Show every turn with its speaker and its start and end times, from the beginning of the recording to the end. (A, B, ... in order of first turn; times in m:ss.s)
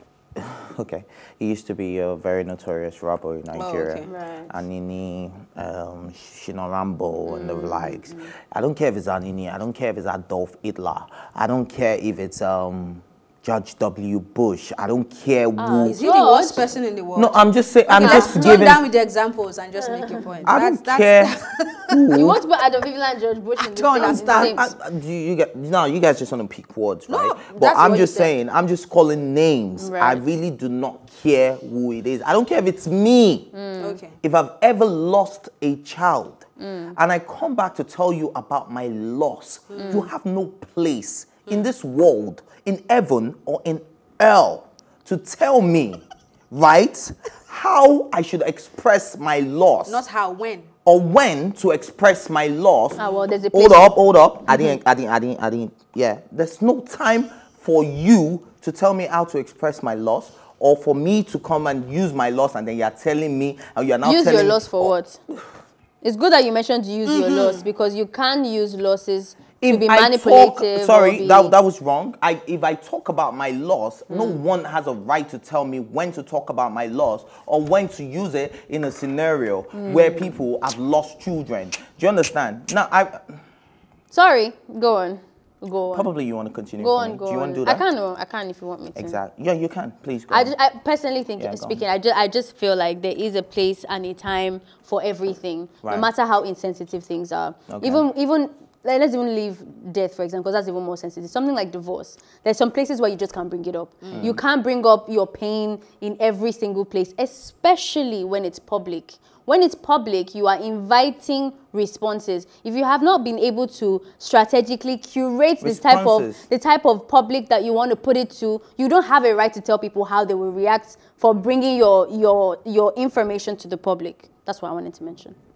0:00.4-0:16.0 A
0:03.5-0:04.1 B
0:04.1-0:04.6 C
0:07.3-0:08.3 C
0:15.6-0:16.6 C
0:15.8-0:22.1 B
0:17.2-0:18.8 A
0:18.0-0:18.7 C
0:20.5-0:21.3 A
0:21.9-0:22.4 A
0:22.1-0:24.7 C
0:23.6-0:24.6 B
0:24.0-0:33.5 A
0:27.1-0:28.3 B
0:29.8-0:30.2 C
0:33.5-0:34.0 C
0:33.8-0:34.2 B
0:34.2-0:50.0 A
0:36.6-0:37.0 C
0:39.7-0:40.0 B
0:39.8-0:40.1 C
0:49.9-0:50.7 B
0:50.8-0:53.0 A
0:53.0-0:54.0 C
0:53.5-1:05.4 A
1:04.0-1:05.2 C
1:06.0-1:11.6 C
1:07.1-1:07.6 B
1:09.6-1:23.4 A
1:14.1-1:14.4 C
1:19.7-1:20.4 C
1:24.1-1:26.1 C
1:25.9-1:27.8 A
1:26.8-1:29.2 C
1:29.0-1:30.5 A
1:30.3-2:05.4 C
1:31.4-1:31.8 A
1:37.7-1:38.0 A
1:44.0-1:44.3 B
1:44.1-1:44.4 A
1:55.6-1:56.4 A